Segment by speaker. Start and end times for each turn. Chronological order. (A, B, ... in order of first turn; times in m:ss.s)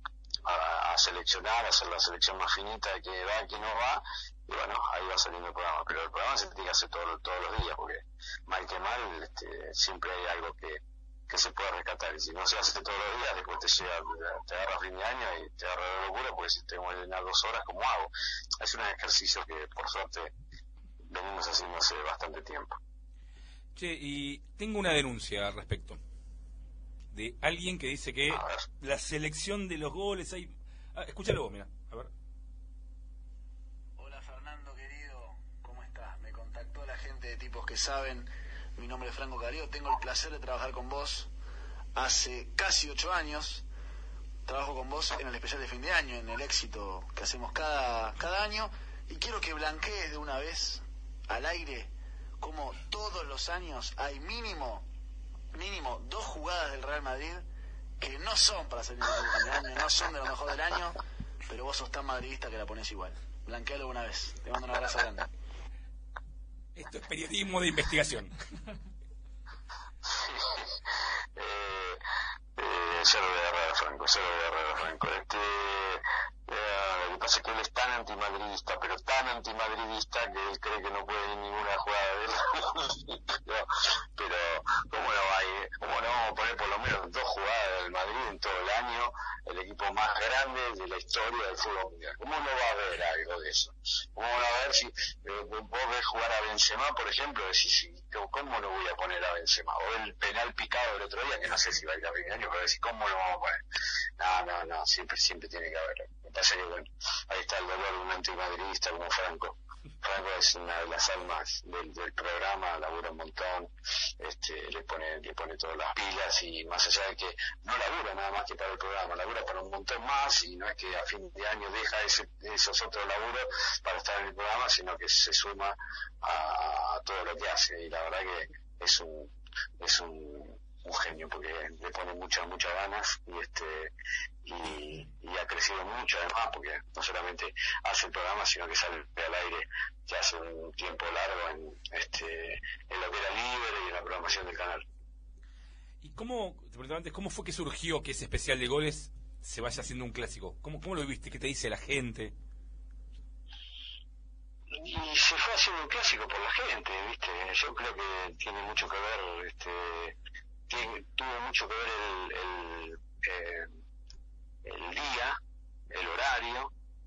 0:00.4-0:20.3 A
0:21.1-0:22.8 A
0:23.7-0:26.0 B
0:27.1-0:32.1 B
0:28.3-0:28.6 A
0:34.0-0:41.3 C
0:41.9-0:43.6 C
0:44.5-0:54.9 C
0:55.5-0:57.4 C
0:58.0-1:05.3 C
1:06.7-1:08.3 B
1:10.1-1:10.8 A
1:11.3-1:12.0 A
1:12.6-1:43.6 A
1:44.2-2:13.9 A
2:14.4-2:24.8 A
2:26.0-2:32.3 B
2:34.7-2:40.2 A
2:40.7-2:43.8 A
2:44.6-2:45.4 A
2:45.9-2:46.7 A